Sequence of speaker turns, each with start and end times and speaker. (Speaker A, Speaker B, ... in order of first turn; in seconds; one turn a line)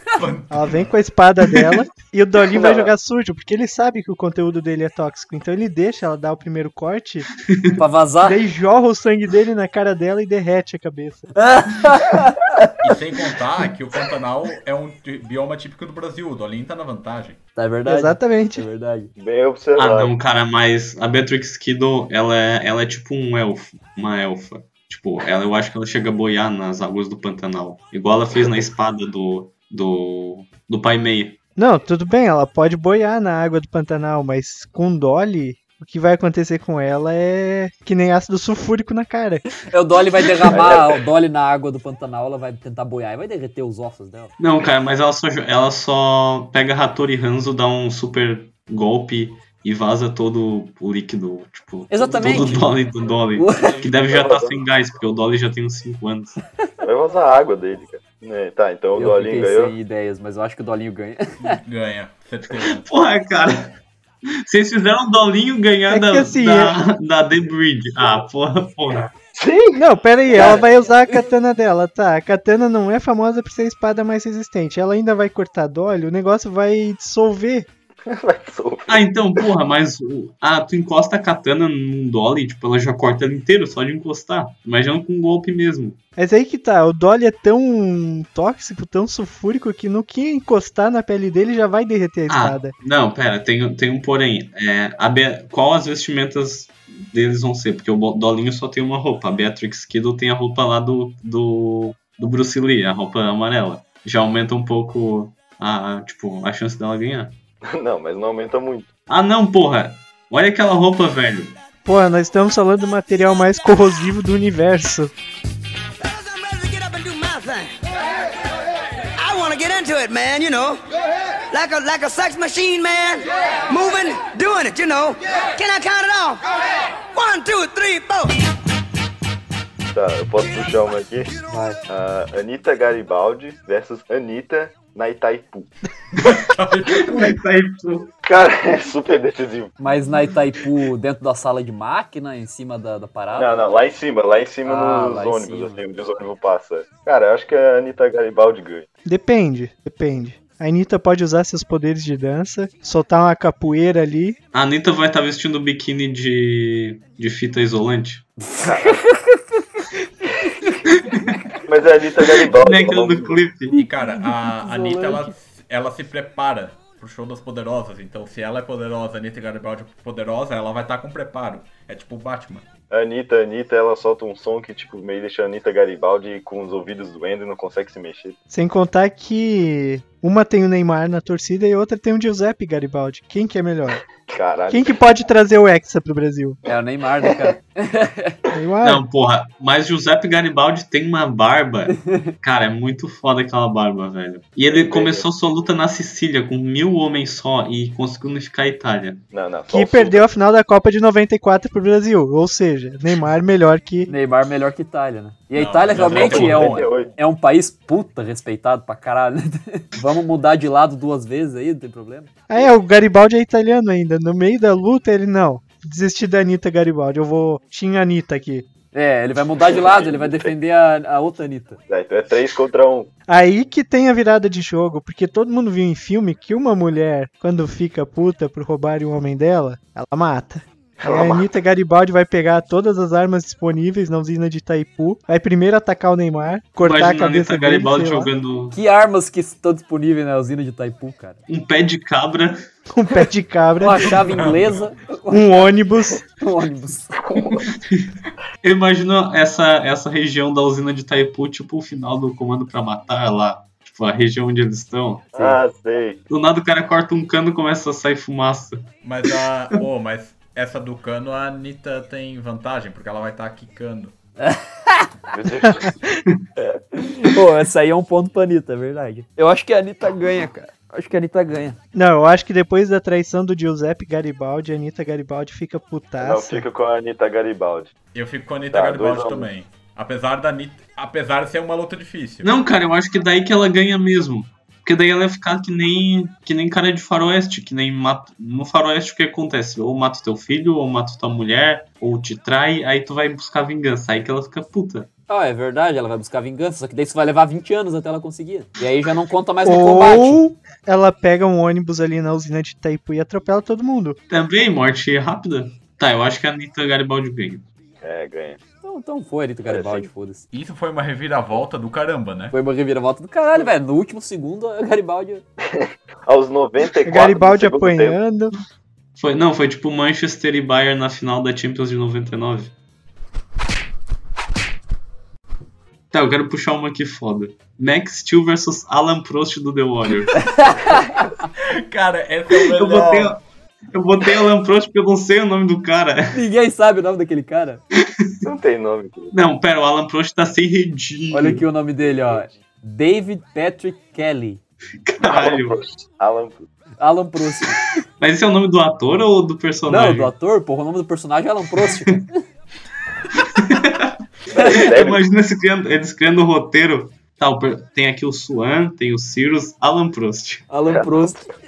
Speaker A: 0.2-0.9
Speaker B: 0.5-7.3
Speaker C: 2.5-2.9
Speaker D: 7.4-7.8
Speaker E: 7.8-8.4
Speaker B: 8.2-11.3
Speaker E: 11.3-12.7
Speaker A: 12.8-17.4
Speaker E: 17.6-19.1
Speaker B: 17.9-18.6
Speaker C: 19.2-20.1
Speaker D: 19.8-31.4
Speaker B: 31.6-39.4
Speaker E: 39.7-44.3
Speaker C: 40.4-41.0
Speaker D: 44.4-56.4
Speaker E: 51.9-52.7
Speaker E: 53.4-53.7
Speaker C: 54.0-54.6
Speaker C: 56.8-59.7
Speaker E: 58.9-61.2
Speaker A: 61.4-62.9
Speaker D: 62.6-63.7
Speaker D: 64.4-69.1
Speaker B: 65.9-66.8
Speaker C: 69.3-69.8
Speaker B: 69.7-77.7
Speaker C: 70.3-70.6
Speaker E: 70.3-71.2
Speaker C: 78.0-79.1
Speaker D: 78.9-86.0
Speaker B: 86.2-92.7
Speaker D: 92.3-107.3
Speaker C: 107.7-108.9
Speaker D: 109.1-111.6
Speaker B: 111.8-115.1
Speaker F: 116.0-117.8
Speaker F: 119.2-120.8
Speaker F: 121.5-126.4
Speaker F: 127.1-128.3
Speaker C: 129.9-131.3
Speaker E: 131.5-131.8
Speaker C: 131.9-135.7
Speaker A: 136.1-137.4
Speaker D: 136.9-138.1
Speaker C: 138.2-139.7
Speaker E: 139.8-143.7
Speaker C: 143.3-148.9
Speaker E: 144.6-145.8
Speaker B: 149.1-154.4
Speaker D: 154.5-158.3
Speaker E: 158.4-159.4
Speaker C: 158.6-159.0
Speaker D: 160.9-161.3
Speaker C: 161.6-163.4
Speaker D: 162.5-163.7
Speaker E: 163.7-165.3
Speaker A: 163.7-172.7
Speaker C: 172.9-178.4
Speaker B: 178.5-184.0
Speaker C: 184.3-184.9
Speaker B: 184.7-186.6
Speaker E: 186.7-188.4
Speaker B: 188.5-189.0
Speaker D: 188.8-199.2
Speaker E: 192.0-192.3
Speaker C: 194.7-195.2
Speaker C: 199.3-200.2
Speaker B: 199.7-204.1
Speaker E: 204.1-212.3
Speaker A: 205.5-207.0
Speaker C: 206.0-207.1
Speaker B: 212.5-218.7
Speaker E: 218.9-221.8
Speaker C: 219.6-220.5
Speaker C: 221.9-223.1
Speaker B: 223.3-238.3
Speaker C: 231.0-231.5
Speaker D: 236.8-238.8
Speaker E: 238.7-241.4
Speaker D: 241.5-242.6
Speaker B: 242.9-244.2
Speaker E: 243.8-245.7
Speaker A: 244.2-244.9
Speaker B: 245.3-246.2
Speaker E: 246.4-247.2
Speaker C: 247.2-247.7
Speaker D: 248.6-255.3
Speaker E: 255.3-255.6
Speaker C: 255.3-256.2
Speaker D: 256.3-258.8
Speaker A: 259.0-264.1
Speaker E: 264.4-265.1
Speaker C: 265.3-266.0
Speaker E: 266.6-271.8
Speaker B: 271.9-276.6
Speaker C: 276.2-277.9
Speaker A: 278.1-282.5
Speaker C: 278.7-279.5
Speaker D: 282.4-295.1
Speaker E: 295.3-300.4
Speaker B: 299.6-304.2
Speaker D: 304.3-307.6
Speaker C: 308.0-308.6
Speaker E: 308.8-310.4
Speaker C: 309.6-310.1
Speaker A: 310.5-312.6
Speaker E: 312.5-315.4
Speaker C: 315.7-318.2
Speaker B: 317.0-318.5
Speaker D: 319.1-322.7
Speaker D: 326.1-330.5
Speaker E: 330.4-331.3
Speaker A: 331.7-333.4
Speaker D: 332.6-336.4
Speaker E: 336.3-337.8
Speaker C: 338.4-339.3
Speaker D: 339.3-341.6
Speaker E: 341.3-344.6
Speaker C: 342.0-342.5
Speaker D: 345.1-345.8
Speaker C: 345.2-346.6
Speaker E: 347.0-347.9
Speaker D: 348.2-350.3
Speaker E: 349.9-352.4
Speaker D: 353.3-360.7
Speaker C: 354.5-355.2
Speaker E: 354.6-354.8
Speaker E: 360.7-361.4
Speaker C: 360.9-361.3